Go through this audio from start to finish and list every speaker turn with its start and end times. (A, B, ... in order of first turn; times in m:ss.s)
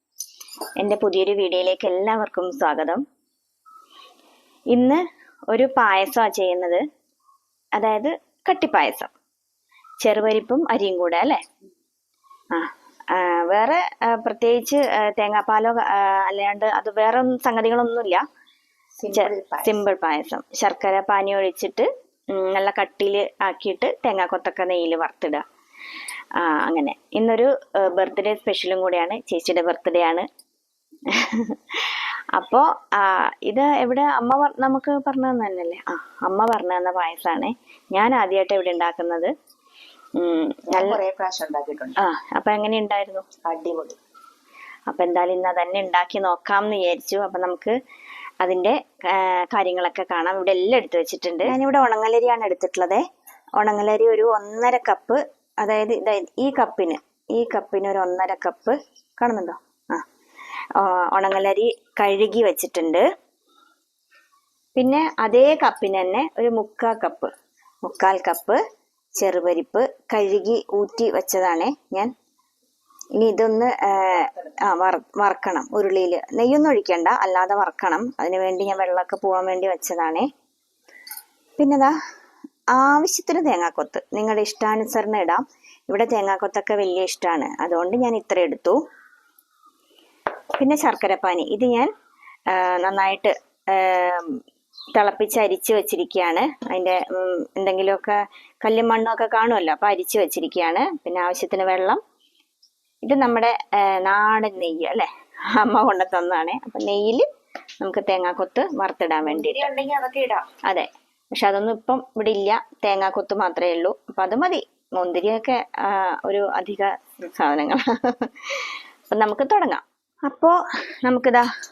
0:00.8-0:03.0 A
0:04.7-0:06.8 A
0:07.8-0:09.1 A
0:10.0-0:11.4 A
0:12.5-0:18.2 A
0:19.0-0:19.8 B
0:19.1-0:25.4 A
0:26.3-0:30.3 A
0:31.1-0:39.3 A
0:40.2-0:41.0 A
0:40.7-0:42.0 B
0:42.0-0:43.2 A
0:43.4-0:44.0 B
0:44.9-0:47.7 A
0:48.4-0:53.0 A
0:53.6-1:00.0 A
1:00.7-1:03.0 A
1:04.8-1:07.3 A
1:07.8-1:08.6 A
1:09.2-1:12.1 A
1:13.2-1:20.3 A
1:21.6-1:22.0 A
1:22.7-1:28.8 A
1:30.6-1:31.9 A
1:32.5-1:34.4 A
1:34.9-1:42.0 A
1:43.0-1:47.2 A
1:47.8-1:49.7 A
1:49.2-1:50.5 B
1:50.6-2:01.5 A